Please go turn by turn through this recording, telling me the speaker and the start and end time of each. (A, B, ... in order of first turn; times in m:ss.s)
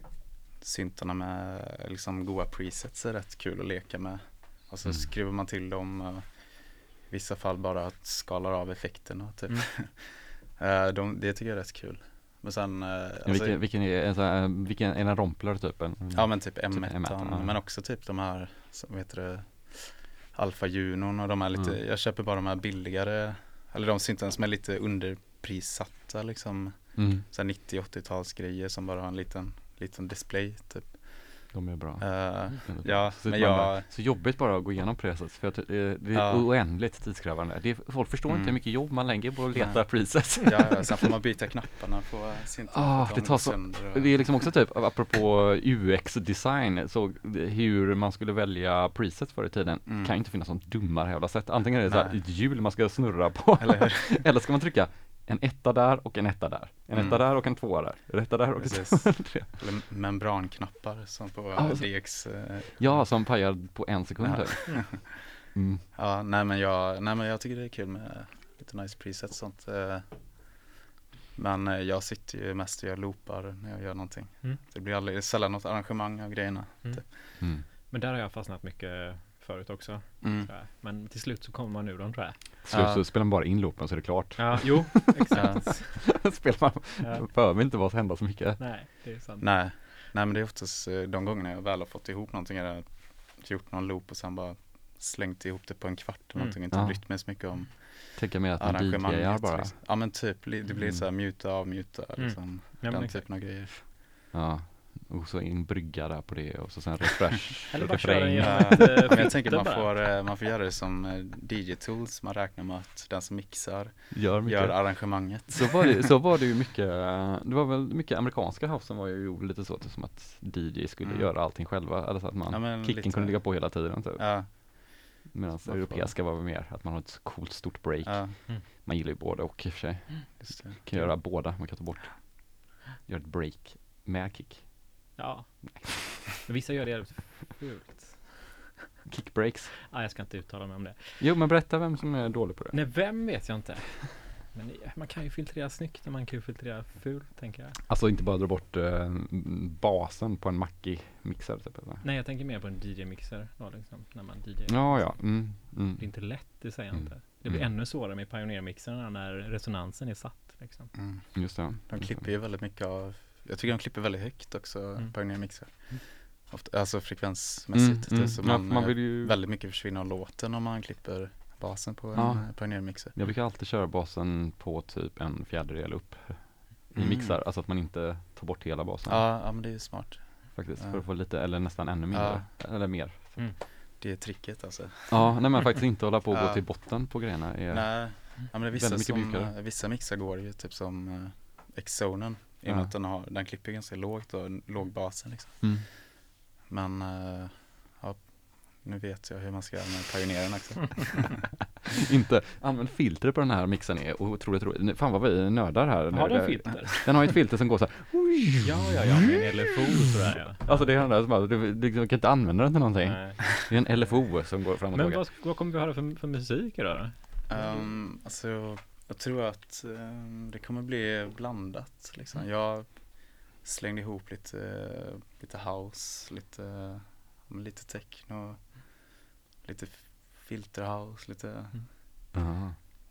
0:00.6-0:13.6 A
0:04.8-0:05.1 B
0:13.2-0:17.6 B
0:16.1-0:33.9 A
0:27.0-0:27.2 B
0:31.5-0:41.1 B
0:36.1-0:36.4 A
0:38.3-0:44.3 A
0:42.7-0:59.5 B
0:49.8-0:50.1 A
0:51.9-0:52.2 A
0:53.6-0:54.2 A
0:56.9-0:57.2 A
0:58.6-1:03.1 A
1:01.6-1:05.8 B
1:04.2-1:05.2 A
1:05.9-1:10.6 A
1:11.3-1:17.2 A
1:16.8-1:22.4 C
1:17.4-1:17.6 B
1:20.2-1:20.5 A
1:22.6-1:28.6 B
1:22.7-1:23.0 A
1:24.4-1:26.1 C
1:25.3-1:25.7 A
1:27.0-1:27.3 C
1:28.6-1:29.5 C
1:29.4-1:43.9 A
1:36.7-1:37.0 B
1:38.2-1:39.8 B
1:40.8-1:41.0 B
1:42.2-1:43.3 C
1:44.3-1:49.2 B
1:47.7-1:50.0 C
1:48.4-1:56.0 A
1:54.1-2:14.7 B
2:01.0-2:01.3 A
2:02.5-2:06.1 A
2:08.0-2:08.4 A
2:10.4-2:11.1 A
2:15.2-2:18.7 C
2:19.1-2:19.8 B
2:19.9-2:21.3 C
2:21.2-2:22.9 B
2:22.7-2:27.8 C
2:27.9-2:32.0 B
2:32.0-2:40.9 C
2:34.7-2:37.6 B
2:40.9-2:53.1 A
2:41.3-2:42.3 B
2:47.7-2:49.4 B
2:52.1-2:59.3 B
2:56.9-2:57.4 A
2:59.1-3:01.6 A
3:00.5-3:03.5 B
3:02.1-3:02.5 A
3:04.0-3:05.8 A
3:05.1-3:09.5 B
3:06.3-3:06.6 A
3:07.7-3:16.0 A
3:12.6-3:12.9 B
3:15.6-3:15.9 B
3:16.6-3:21.5 A
3:21.8-3:35.2 B
3:26.1-3:27.3 C
3:28.6-3:31.0 C
3:33.0-3:33.4 C
3:34.9-3:37.8 C
3:37.5-3:51.9 A
3:52.3-3:52.8 B